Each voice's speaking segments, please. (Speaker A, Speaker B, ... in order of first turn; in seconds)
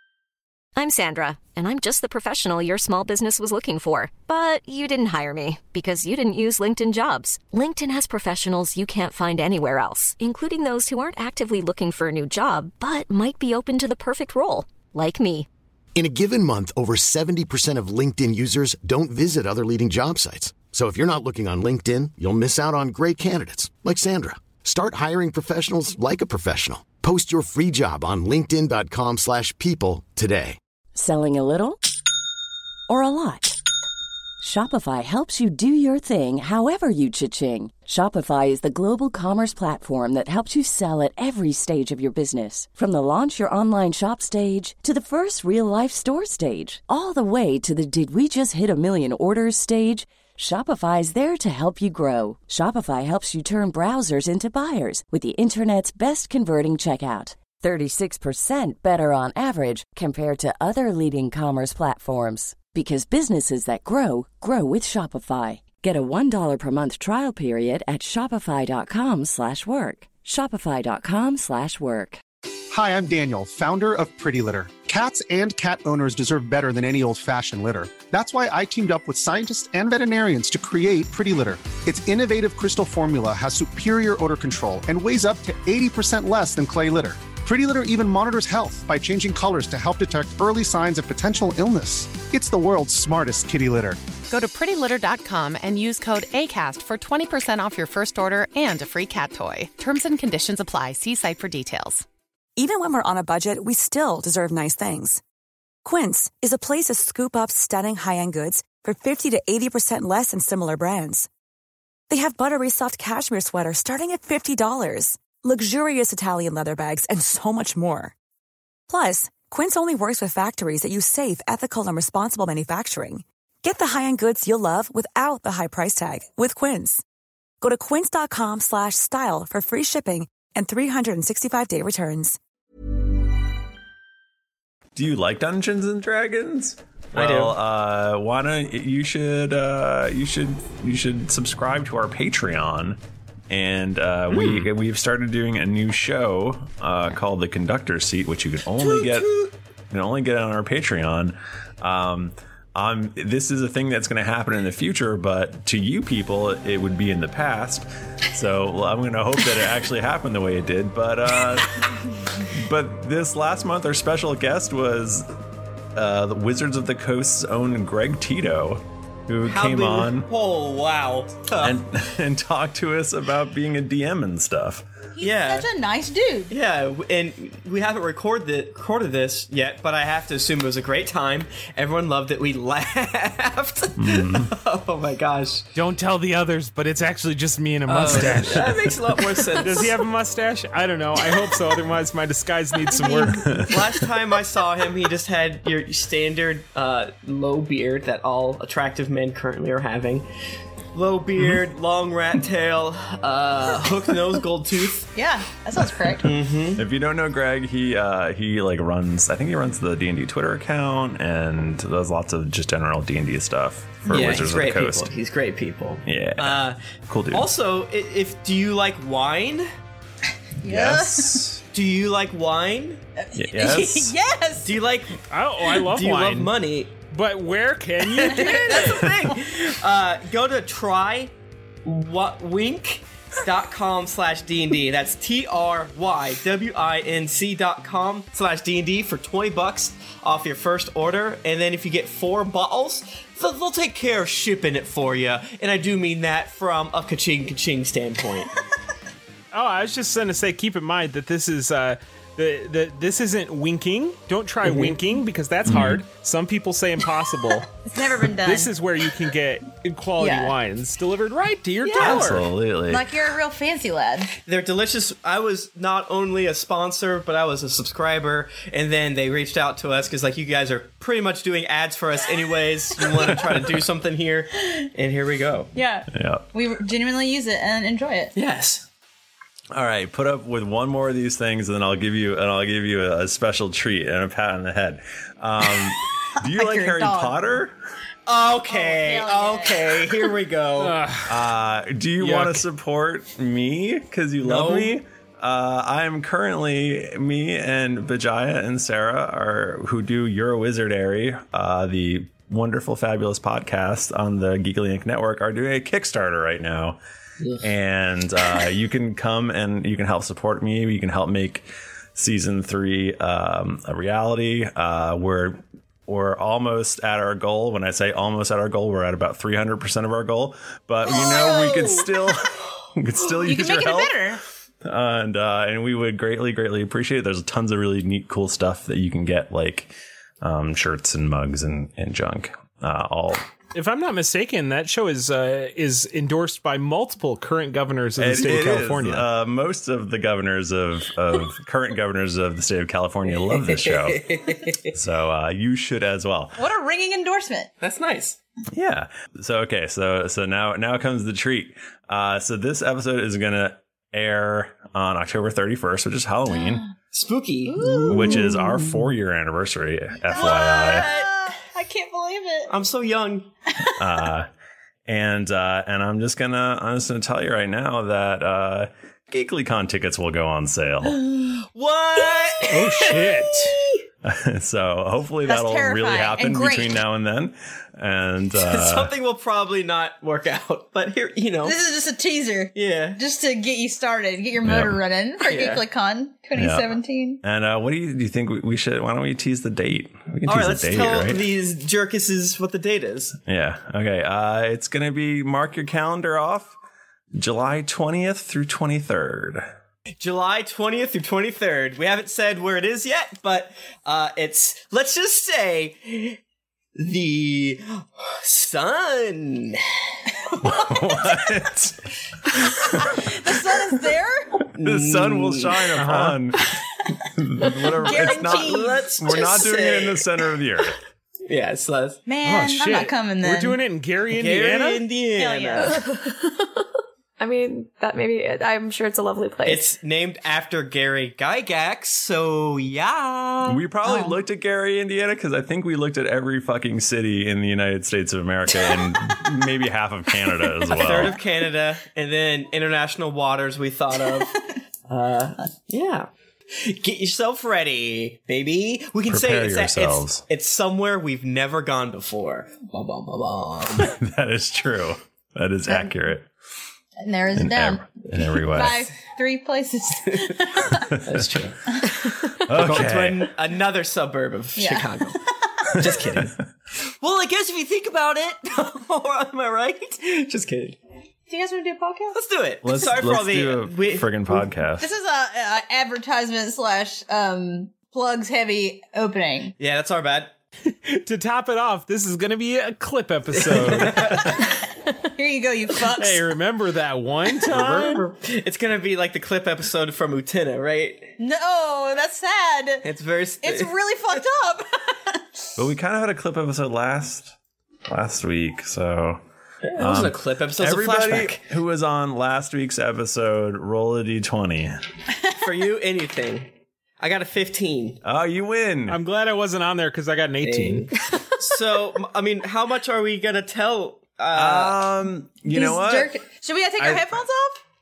Speaker A: 0.8-15.5
Speaker B: 15.9-30.6
Speaker C: 30.9-31.8, 32.9-33.6, 34.4-72.2
Speaker D: 72.7-94.0
Speaker E: 94.3-102.1
Speaker F: 102.6-105.2, 105.8-111.3, 112.1-118.1, 118.9-127.0, 127.6-132.4
Speaker G: 134.9-161.8, 162.4-165.2, 165.9-170.3, 171.6-174.8, 184.0-184.5, 188.1-188.9, 193.5-193.8, 206.8-215.1, 216.0-217.5, 220.6-221.6, 223.3-224.1, 255.7-256.0, 262.0-263.1, 276.1-276.4, 279.7-287.7, 291.3-307.0, 307.6-324.1, 324.9-333.4, 338.2-344.4, 344.9-346.6, 348.7-356.9, 358.1-361.1, 364.0-364.5, 365.1-371.2, 374.2-379.1, 384.6-385.0, 386.6-391.5, 393.5-396.8, 397.3-399.7, 410.6-412.0, 414.8-416.6, 417.4-421.0, 433.6-441.4, 449.3-450.4, 454.0-456.5, 457.6-459.1, 461.0-461.5, 462.4-463.5, 466.0-466.4, 472.8-475.1, 495.8-497.5, 498.1-499.4, 500.0-505.0, 508.2-509.2, 514.5-516.4, 517.0-517.4
Speaker H: 137.1-137.6, 169.5-171.8, 175.2-175.7, 176.5-185.7, 187.9-190.0, 193.0-200.3, 200.9-205.1, 206.2-206.8, 214.1-216.8, 217.3-219.7, 221.7-223.0, 224.6-226.9, 228.2-231.3, 231.8-248.5, 254.7-254.9, 264.5-275.7, 278.4-278.9, 288.3-291.0, 294.4-295.0, 343.5-344.8, 347.8-348.4, 357.1-358.4, 360.3-361.3, 362.7-363.5, 371.7-373.7, 378.6-381.8, 382.7-383.2, 385.4-385.8, 390.5-393.4, 400.2-406.4, 407.0-409.8, 414.8-415.9, 418.3-420.4, 421.5-422.2, 424.3-426.0, 429.6-433.8, 440.9-444.5, 445.1-454.1, 461.3-461.8, 462.7-465.4, 465.9-466.5, 467.1-471.0, 472.3-474.7, 479.8-480.5, 483.5-484.4, 487.6-491.3, 493.0-494.0, 499.8-501.6, 505.5-506.7, 507.2-508.2, 510.6-515.1
Speaker I: 175.1-176.5, 205.1-206.3, 220.6-221.5, 223.2-224.7, 257.8-258.7, 260.2-260.6, 261.8-264.3, 275.8-278.4, 286.4-287.4, 288.7-290.3, 321.0-322.1, 323.2-324.4, 346.6-347.7, 357.7-358.6, 360.3-362.7, 375.4-376.9, 381.6-387.4, 410.6-411.2, 412.7-414.6, 418.0-418.9, 422.2-423.8, 425.4-426.0, 434.0-434.4, 457.2-461.1, 464.8-465.7, 471.5-472.4, 475.0-479.7, 485.4-486.4, 491.4-493.0, 493.6-495.4, 515.7-517.8
Speaker J: 185.8-188.8, 189.5-193.6, 225.3-226.5, 227.1-229.1, 249.5-257.7, 258.3-262.5, 290.8-291.5, 292.2-292.6, 333.7-339.2, 372.7-373.8, 415.9-416.4, 422.4-425.0, 481.1-484.5, 486.1-488.2, 509.1-511.1
Speaker K: 426.0-426.7, 427.4-429.9